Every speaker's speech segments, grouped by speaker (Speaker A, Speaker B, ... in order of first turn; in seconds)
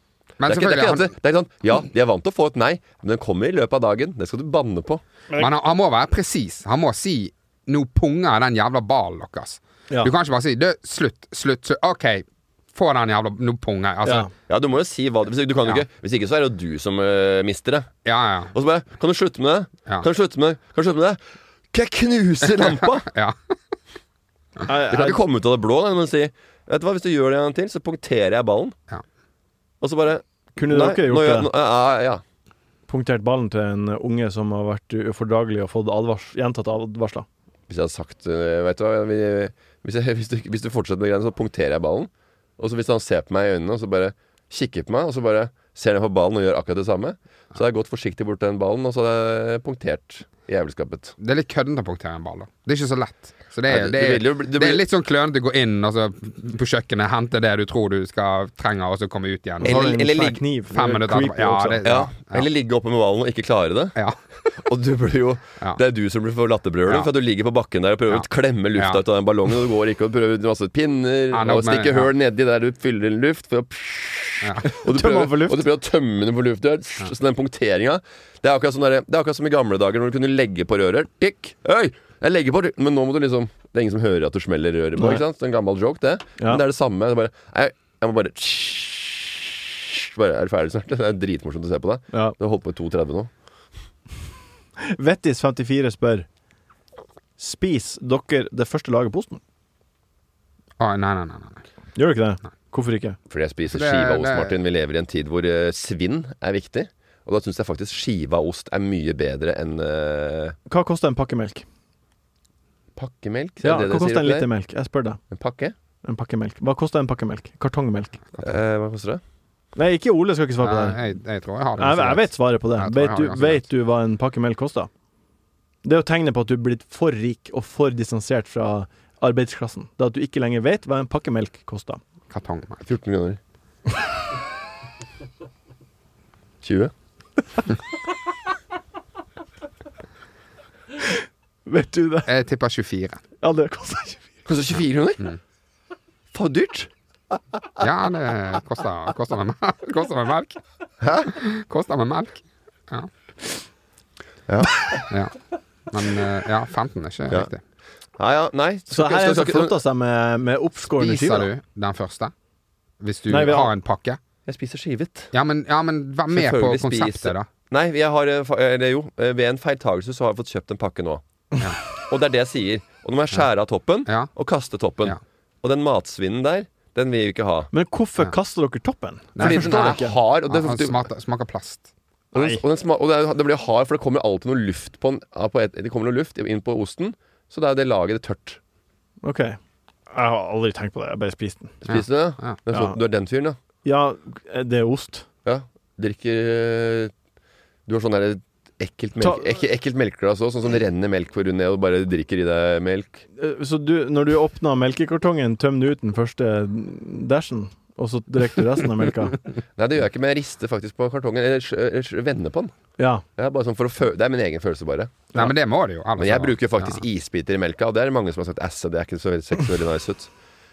Speaker A: 0.4-1.1, 5.4-14.3, 18.1-18.5, 22.5-23.4, 51.2-59.8, 60.7-62.5, 68.1-69.0, 71.3-72.1, 100.8-101.6, 103.7-104.6, 120.6-123.7, 132.3-132.8, 142.3-143.2, 147.8-150.6, 151.3-153.1, 155.1-155.3, 155.9-157.6, 160.9-162.3, 163.0-164.2, 165.3-167.5, 179.3-181.9, 191.8-192.6, 215.3-217.0
Speaker B: 0.5-5.0, 14.5-17.9, 18.5-21.2, 21.7-23.1, 24.9-28.8, 29.8-32.2, 37.7-51.2, 53.7-54.8, 59.6-60.4, 61.9-64.0, 64.7-93.3, 103.3-110.6, 113.0-114.5, 115.3-115.7, 118.4-119.2, 132.8-133.4, 136.6-136.9, 144.5-145.3, 146.3-146.9, 151.0-151.3, 154.5-154.7, 158.2-159.8, 164.5-165.3, 166.3-171.2, 172.1-177.7, 179.4-181.1, 182.3-188.6, 191.9-193.6, 195.4-197.1, 197.9-203.2, 209.8-212.7, 213.4-215.5, 216.2-220.3
Speaker C: 14.0-14.3, 24.7-25.2, 30.6-31.5, 32.9-37.3, 59.6-61.8, 74.6-75.7, 85.0-85.2, 94.8-96.3, 97.4-99.4, 102.0-103.2, 110.7-111.7, 113.6-115.2, 116.0-118.2, 119.8-121.0, 121.8-124.9, 125.8-132.0, 141.7-142.3, 143.4-144.3, 158.9-161.5, 163.3-163.7, 177.7-180.2, 182.3-182.6, 189.2-189.6, 190.1-191.8, 193.8-195.3, 199.2-199.5, 203.4-209.4